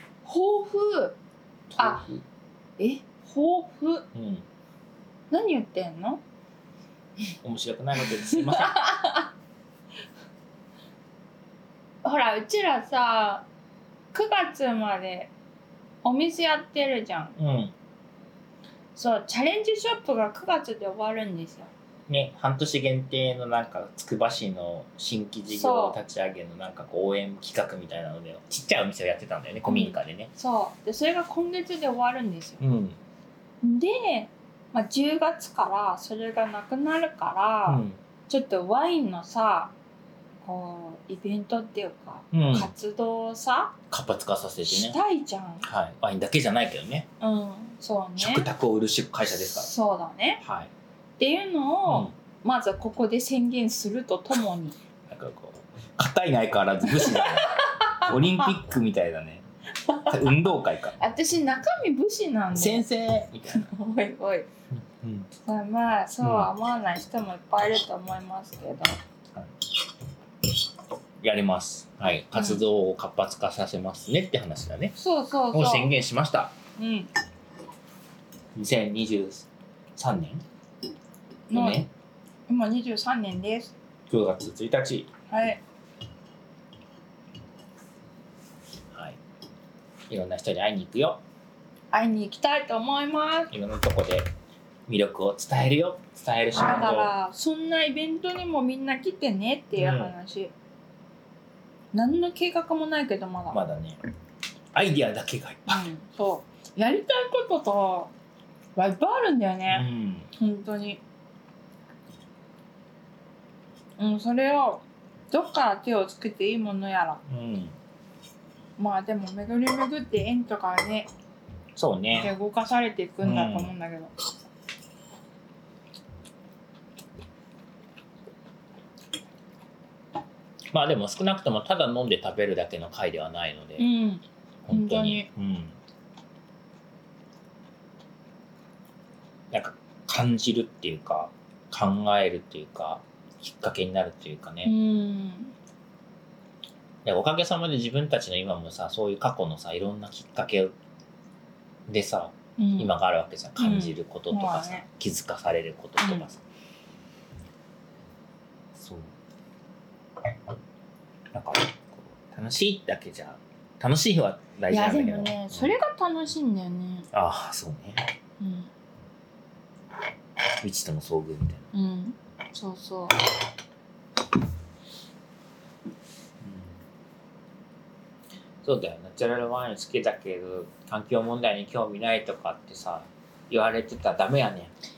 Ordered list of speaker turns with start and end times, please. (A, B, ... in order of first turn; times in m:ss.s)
0:00.2-0:01.2 A
0:01.7-0:02.2 B
0:01.8-0:02.0 A
0:02.8-0:04.1 A
0:04.1-0:04.4 B
0:05.3-0:06.2 A
0:07.4-0:08.8 B
0:08.0-0:09.3 A
0:12.0-0:13.4 A
0:14.1-0:15.3 A
0:16.0-0:17.3 A
0:17.4-0:17.7 B
0:18.9-0:21.7 A
0:22.1-0:30.3 B
0:25.5-0:26.0 A
0:29.7-0:32.6 A
0:32.6-0:33.0 B
0:33.6-0:39.7 A
0:37.7-0:38.0 B
0:40.4-0:43.7 A
0:42.3-0:42.7 B
0:43.9-0:45.0 B
0:44.6-0:45.7 A
0:45.6-0:47.0 B
0:47.2-0:48.5 A
0:48.2-0:49.7 B
0:49.4-0:50.4 A
0:50.4-0:50.7 B
0:51.2-0:54.8 A
0:55.1-0:59.4 B
0:56.8-0:58.5 A
0:59.8-1:02.9 A
1:00.1-1:01.0 B
1:02.5-1:03.7 B
1:03.5-1:04.5 A
1:04.7-1:05.3 B
1:05.4-1:09.0 A
1:06.2-1:06.5 B
1:11.2-1:14.9 B
1:12.3-1:12.6 A
1:14.9-1:15.9 A
1:15.5-1:16.5 B
1:16.8-1:17.1 A
1:18.5-1:20.4 B
1:21.5-1:21.8 A
1:21.5-1:21.9 B
1:22.5-1:23.7 A
1:24.1-1:25.1 B
1:25.3-1:25.6 A
1:28.9-1:29.2 B
1:30.1-1:31.2 B
1:31.9-1:33.5 A
1:33.5-1:34.3 B
1:34.9-1:37.1 B
1:36.5-1:40.5 A
1:39.8-1:40.1 B
1:41.9-1:43.6 A
1:43.5-1:44.0 B
1:44.7-1:45.9 B
1:45.7-1:48.1 A
1:48.8-1:51.0 A
1:49.7-1:50.3 B
1:54.0-1:57.2 A
1:57.3-1:57.8 B
1:58.8-2:01.1 A
2:01.7-2:02.3 B
2:02.1-2:04.1 A
2:03.2-2:03.7 B
2:10.7-2:13.8 B
2:13.8-2:15.3 A
2:14.6-2:15.8 B
2:19.5-2:24.7 B
2:24.6-2:25.5 A
2:27.0-2:30.7 B
2:31.9-2:36.4 B
2:32.6-2:32.9 A
2:33.6-2:34.8 A
2:36.0-2:36.2 A
2:38.7-2:39.1 B
2:41.3-2:45.7 B
2:44.7-2:47.1 A
2:47.1-2:48.1 B
2:48.4-2:48.7 A
2:50.6-2:51.6 B
2:51.7-2:53.2 A
2:56.4-2:56.8 B
2:58.6-3:04.7 B